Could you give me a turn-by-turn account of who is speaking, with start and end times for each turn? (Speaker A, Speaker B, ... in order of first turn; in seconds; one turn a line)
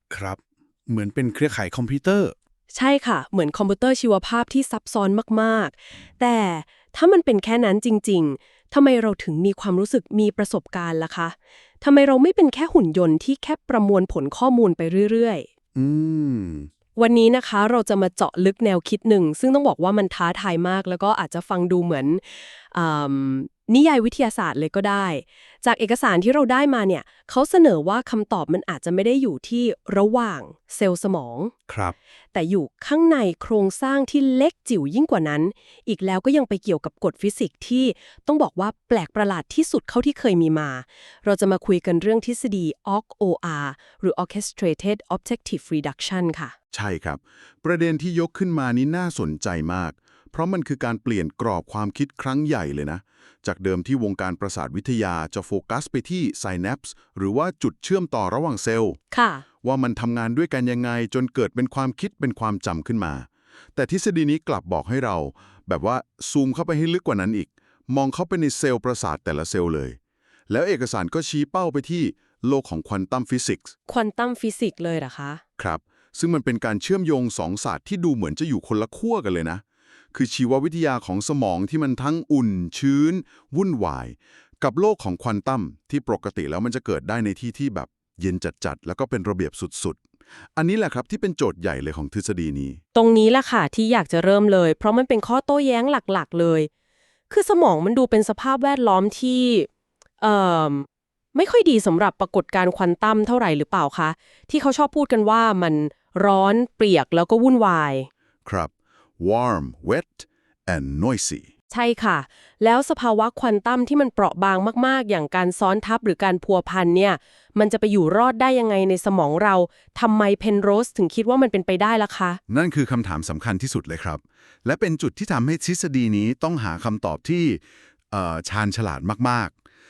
Speaker A: 0.1-2.3
Speaker B: 2.7-15.5
Speaker A: 15.8-16.7
Speaker B: 16.9-31.5
Speaker A: 31.7-31.9
Speaker B: 32.3-46.5
Speaker A: 46.7-59.0
Speaker B: 59.1-59.4
Speaker A: 59.6-70.0
Speaker A: 70.5-73.7
Speaker B: 73.9-75.4
Speaker A: 75.6-79.6
Speaker A: 80.1-90.0
Speaker A: 90.5-92.8
Speaker B: 92.9-96.7
Speaker B: 97.3-99.7
Speaker B: 100.2-108.1
Speaker A: 108.4-111.5
Speaker B: 111.7-122.4
Speaker A: 122.5-129.5